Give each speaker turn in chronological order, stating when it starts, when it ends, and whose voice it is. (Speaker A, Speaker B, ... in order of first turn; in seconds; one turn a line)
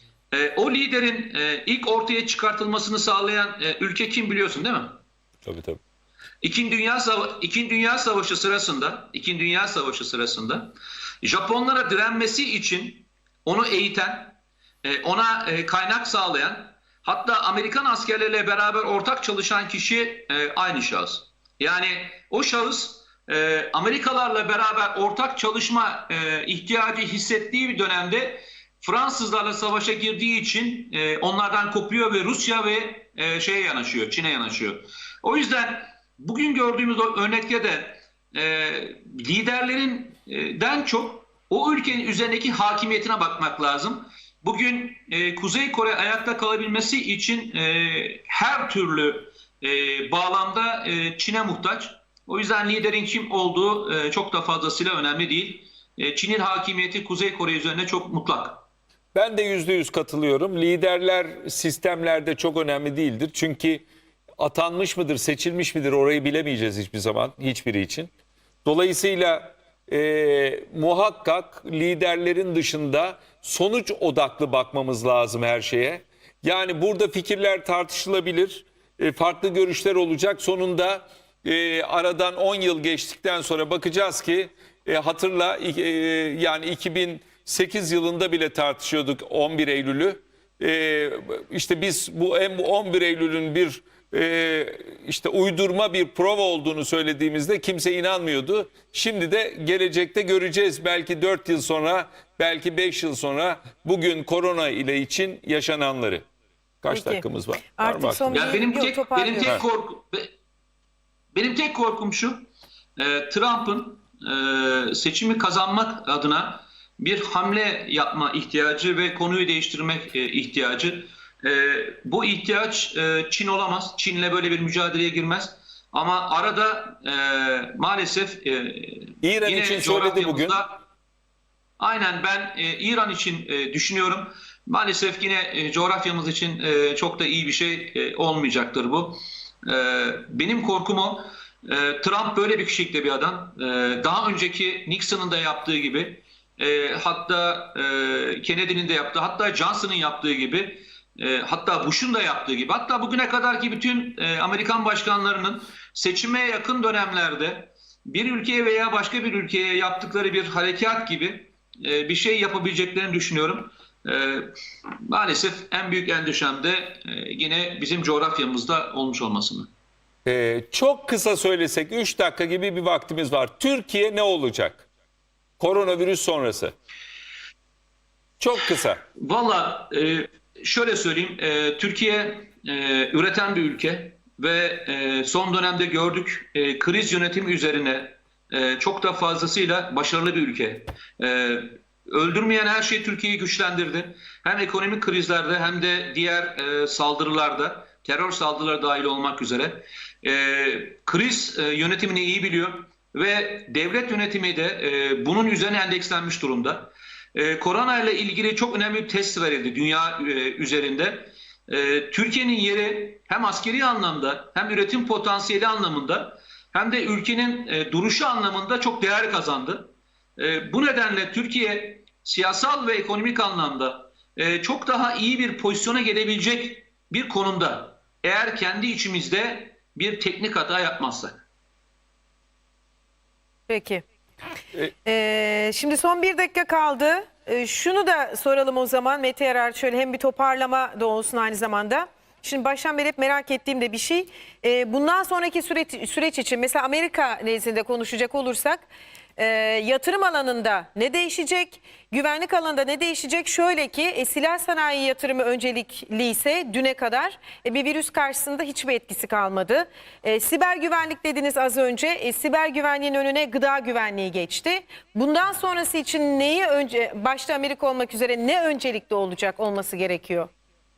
Speaker A: 0.3-5.0
Speaker B: 5.4-5.8
Speaker A: 6.4-58.6
Speaker B: 59.1-63.8
Speaker B: 64.4-68.1
Speaker B: 68.6-106.2
Speaker B: 106.8-108.6
Speaker C: 106.9-107.2
Speaker C: 107.8-109.5
Speaker A: 108.3-110.3
Speaker A: 111.3-112.5
Speaker A: 113.0-130.8
Speaker B: 129.2-130.6
Speaker A: 131.8-164.5
Speaker A: 165.0-169.7
Speaker B: 170.2-174.8
Speaker B: 175.6-176.7
Speaker B: 178.4-179.0
Speaker A: 179.2-231.4
Speaker C: 233.7-234.0
Speaker C: 235.0-270.5